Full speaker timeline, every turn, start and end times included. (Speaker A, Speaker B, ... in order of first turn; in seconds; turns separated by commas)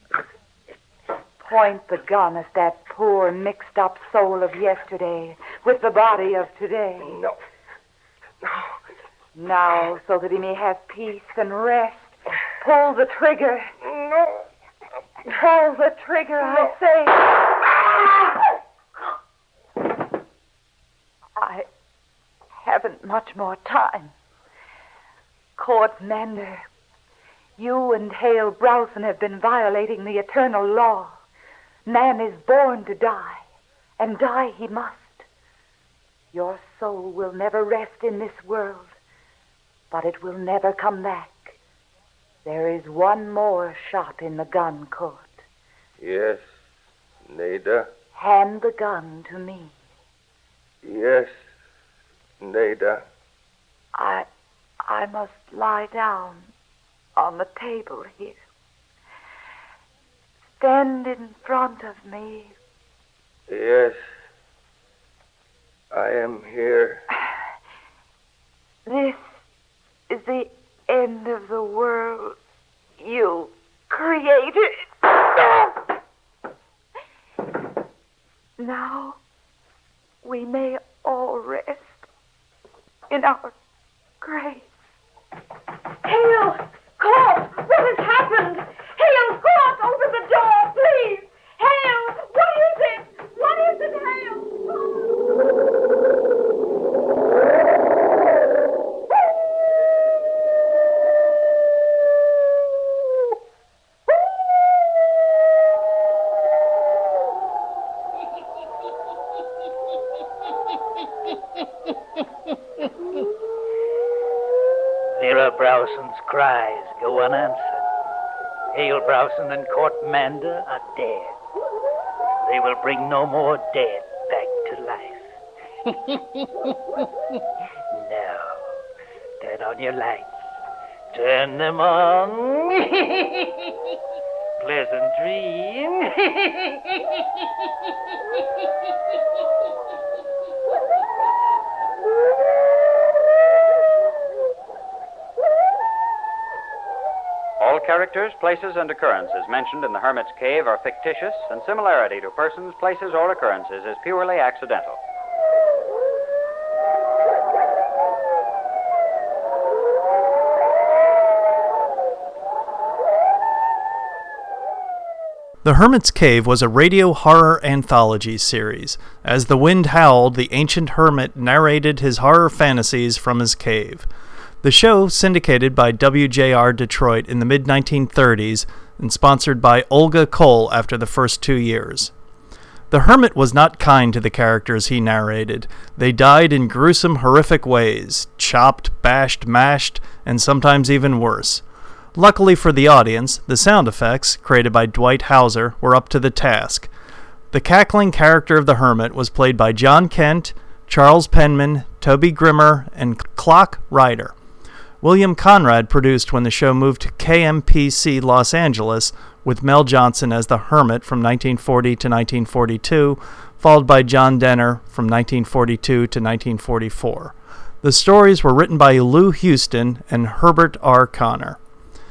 Speaker A: 1.4-7.2, Speaker B: 7.1-7.3, Speaker B: 8.4-8.7, Speaker A: 9.3-13.7, Speaker B: 13.9-14.4, Speaker A: 15.2-17.4, Speaker A: 21.4-21.7, Speaker A: 22.6-24.1, Speaker A: 25.6-26.6, Speaker A: 27.6-31.2, Speaker A: 31.9-33.4, Speaker A: 34.0-35.2, Speaker A: 36.3-38.9, Speaker A: 39.9-41.6, Speaker A: 42.4-45.3, Speaker B: 46.0-46.4, Speaker B: 47.2-47.9, Speaker A: 48.1-49.8, Speaker B: 50.8-51.4, Speaker B: 52.4-53.0, Speaker A: 53.9-54.3, Speaker A: 54.8-56.5, Speaker A: 57.1-58.4, Speaker A: 60.6-62.5, Speaker B: 63.5-64.0, Speaker B: 65.9-67.0, Speaker A: 68.8-69.2, Speaker A: 70.1-72.4, Speaker A: 73.0-75.7, Speaker A: 78.6-79.2, Speaker A: 80.2-82.0, Speaker A: 83.1-83.5, Speaker A: 84.2-84.7, Speaker C: 86.0-95.2, Speaker D: 115.2-117.8, Speaker D: 118.7-121.3, Speaker D: 122.4-127.0, Speaker D: 127.9-128.6, Speaker D: 129.4-130.3, Speaker D: 131.1-133.7, Speaker D: 134.6-137.2, Speaker E: 147.6-155.0, Speaker F: 165.6-174.1, Speaker F: 174.6-182.1, Speaker F: 182.9-191.6, Speaker F: 192.1-196.9, Speaker F: 197.5-204.3, Speaker F: 205.0-221.6